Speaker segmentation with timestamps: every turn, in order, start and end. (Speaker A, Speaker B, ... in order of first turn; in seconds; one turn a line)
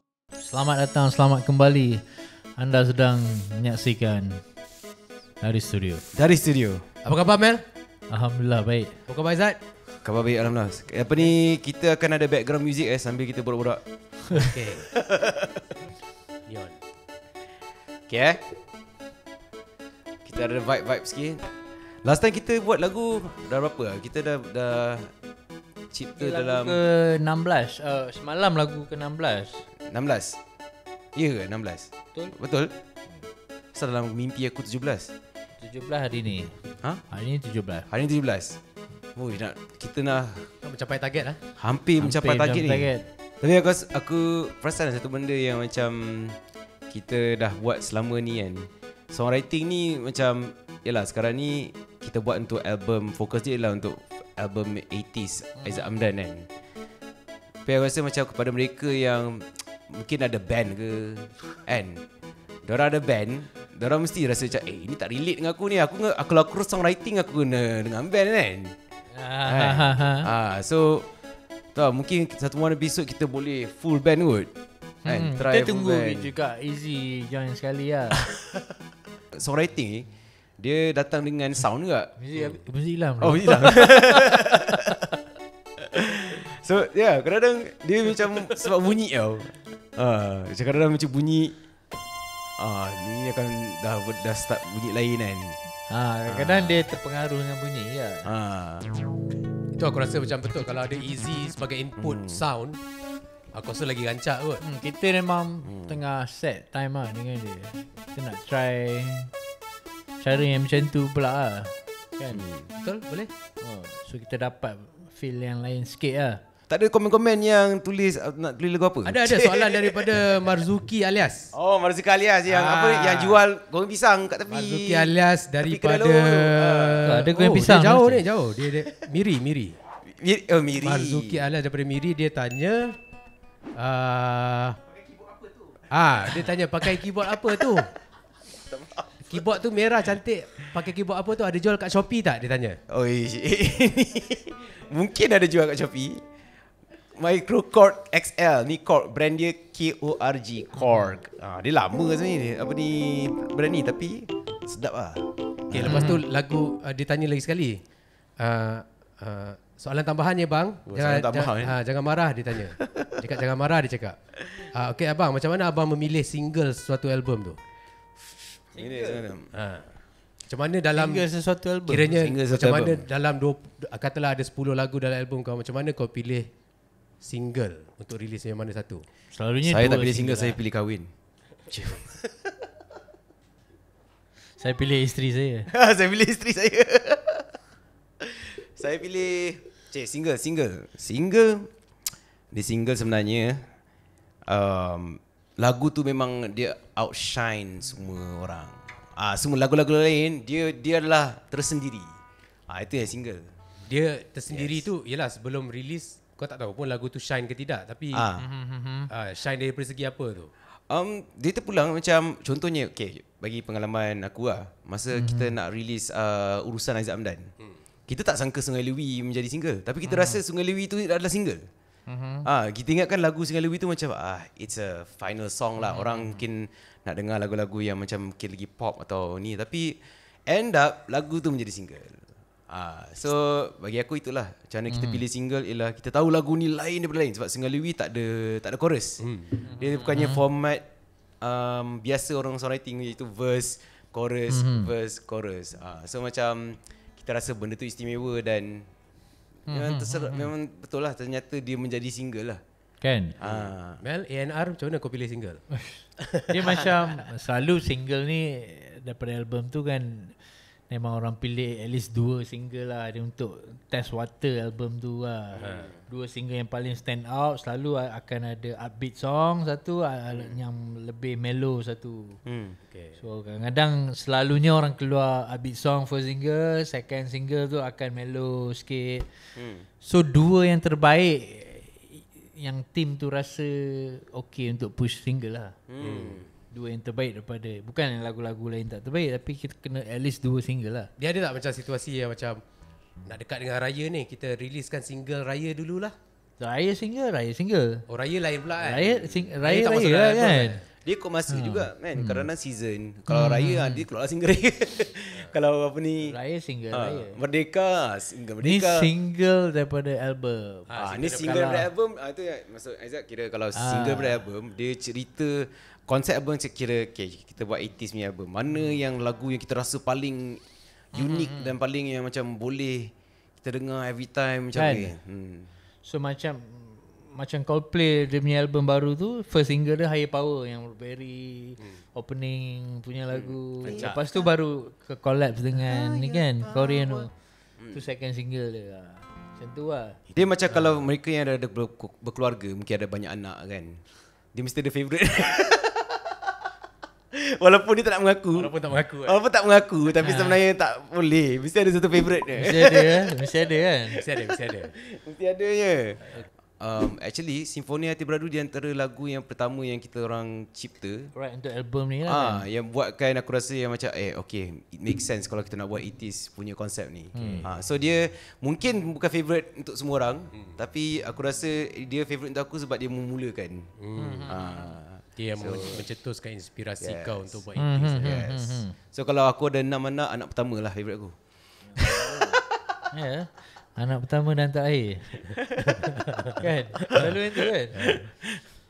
Speaker A: 0.4-4.4
Speaker A: 5.4-6.0
Speaker B: 6.1-6.8
Speaker C: 7.0-7.6
Speaker A: 8.1-9.0
Speaker C: 9.1-9.6
Speaker B: 10.0-13.8
Speaker B: 14.3-15.7
Speaker C: 14.3-14.9
Speaker C: 16.5-16.8
Speaker B: 18.1-18.4
Speaker B: 20.2-25.1
Speaker B: 25.9-26.8
Speaker A: 26.1-29.6
Speaker B: 29.8-30.4
Speaker B: 31.1-32.7
Speaker B: 33.7-35.1
Speaker A: 35.6-36.6
Speaker A: 37.1-37.9
Speaker B: 37.9-38.6
Speaker B: 39.1-40.5
Speaker C: 40.6-41.4
Speaker B: 41.6-46.4
Speaker A: 42.0-43.1
Speaker B: 46.9-56.5
Speaker A: 55.6-55.8
Speaker B: 57.6-62.0
Speaker B: 62.6-68.8
Speaker A: 69.1-70.3
Speaker B: 69.4-71.1
Speaker B: 71.7-74.5
Speaker B: 75.0-76.3
Speaker A: 75.0-78.3
Speaker B: 79.3-80.1
Speaker B: 80.6-82.1
Speaker A: 82.2-84.8
Speaker B: 83.2-85.1
Speaker B: 85.8-91.5
Speaker B: 92.6-95.6
Speaker A: 95.9-98.3
Speaker B: 96.3-96.9
Speaker B: 98.2-98.9
Speaker C: 99.8-102.8
Speaker B: 102.0-102.4
Speaker C: 103.5-104.6
Speaker A: 104.6-109.3
Speaker B: 105.6-106.0
Speaker A: 110.2-112.5
Speaker B: 112.3-112.7
Speaker C: 112.8-113.3
Speaker A: 113.6-116.4
Speaker B: 116.7-120.5
Speaker C: 119.0-121.5
Speaker B: 121.5-127.2
Speaker C: 122.5-123.4
Speaker C: 124.5-129.7
Speaker A: 127.0-128.2
Speaker B: 130.0-131.4
Speaker C: 130.8-132.9
Speaker C: 133.8-134.8
Speaker C: 135.9-137.9
Speaker B: 136.4-137.9
Speaker B: 138.4-139.5
Speaker C: 139.3-142.8
Speaker B: 142.9-146.2
Speaker B: 147.1-156.2
Speaker A: 150.8-151.1
Speaker C: 155.7-157.8
Speaker A: 155.8-156.2
Speaker C: 158.4-164.2
Speaker B: 160.8-161.8
Speaker B: 162.7-163.3
Speaker B: 164.4-164.7
Speaker C: 164.7-167.6
Speaker B: 168.7-169.5
Speaker A: 168.8-169.1
Speaker C: 169.5-169.9
Speaker C: 170.4-171.2
Speaker A: 170.9-172.1
Speaker C: 171.9-176.5
Speaker B: 172.1-173.1
Speaker C: 177.2-179.0
Speaker A: 179.3-180.6
Speaker B: 179.7-181.1
Speaker C: 181.7-182.1
Speaker A: 184.6-185.7
Speaker B: 185.7-187.5
Speaker B: 188.2-191.7
Speaker B: 192.5-193.7
Speaker B: 194.5-202.1
Speaker B: 202.7-203.5
Speaker C: 203.9-208.2
Speaker B: 204.5-204.9
Speaker B: 208.1-208.5
Speaker A: 208.4-209.1
Speaker C: 209.1-210.5
Speaker B: 210.9-217.5
Speaker A: 215.1-215.5
Speaker B: 218.1-221.7
Speaker A: 220.0-220.4
Speaker A: 222.1-222.5
Speaker B: 222.4-240.8
Speaker A: 225.9-226.4
Speaker A: 234.9-235.2
Speaker C: 239.2-239.5
Speaker A: 239.6-240.4
Speaker B: 241.4-248.9
Speaker A: 244.5-244.9
Speaker A: 249.7-250.5
Speaker B: 249.7-252.6
Speaker A: 253.0-253.3
Speaker B: 253.4-254.0
Speaker C: 253.4-255.7
Speaker A: 255.8-272.4
Speaker C: 256.2-256.9
Speaker C: 265.6-265.9
Speaker B: 265.6-265.9
Speaker B: 272.4-272.8
Speaker C: 272.9-273.2
Speaker A: 273.2-285.8
Speaker B: 279.5-279.9
Speaker B: 285.9-286.5
Speaker C: 286.0-286.4
Speaker A: 286.7-291.1
Speaker C: 291.2-292.6
Speaker C: 293.2-296.1
Speaker A: 296.6-298.0
Speaker C: 298.1-300.8
Speaker A: 298.8-300.8
Speaker B: 301.0-306.4
Speaker A: 301.5-302.5
Speaker A: 303.3-304.0
Speaker A: 306.2-307.4
Speaker B: 306.9-309.1
Speaker A: 308.6-311.8
Speaker C: 310.9-311.8
Speaker B: 311.0-320.6
Speaker A: 313.7-314.4
Speaker B: 321.1-325.7
Speaker A: 321.1-321.7
Speaker A: 324.7-325.1
Speaker A: 326.0-337.3
Speaker B: 333.3-334.1
Speaker C: 333.8-334.2
Speaker B: 335.7-338.0
Speaker A: 337.9-340.2
Speaker B: 340.3-344.0
Speaker C: 340.7-341.0
Speaker B: 344.5-346.5
Speaker B: 347.3-353.6
Speaker C: 348.5-349.4
Speaker A: 350.2-350.6
Speaker A: 352.6-354.2
Speaker C: 354.1-354.9
Speaker B: 354.2-361.3
Speaker A: 361.3-362.6
Speaker B: 362.2-373.9
Speaker A: 367.3-367.7
Speaker C: 367.4-367.7
Speaker C: 374.0-374.6
Speaker A: 374.1-374.6
Speaker B: 374.5-376.1
Speaker C: 375.4-378.4
Speaker B: 377.0-377.6
Speaker A: 377.8-378.9
Speaker B: 378.2-381.3
Speaker A: 381.8-385.5
Speaker B: 381.9-383.0
Speaker B: 385.5-386.1
Speaker C: 385.9-387.3
Speaker A: 386.6-388.0
Speaker C: 387.9-388.2
Speaker B: 387.9-388.6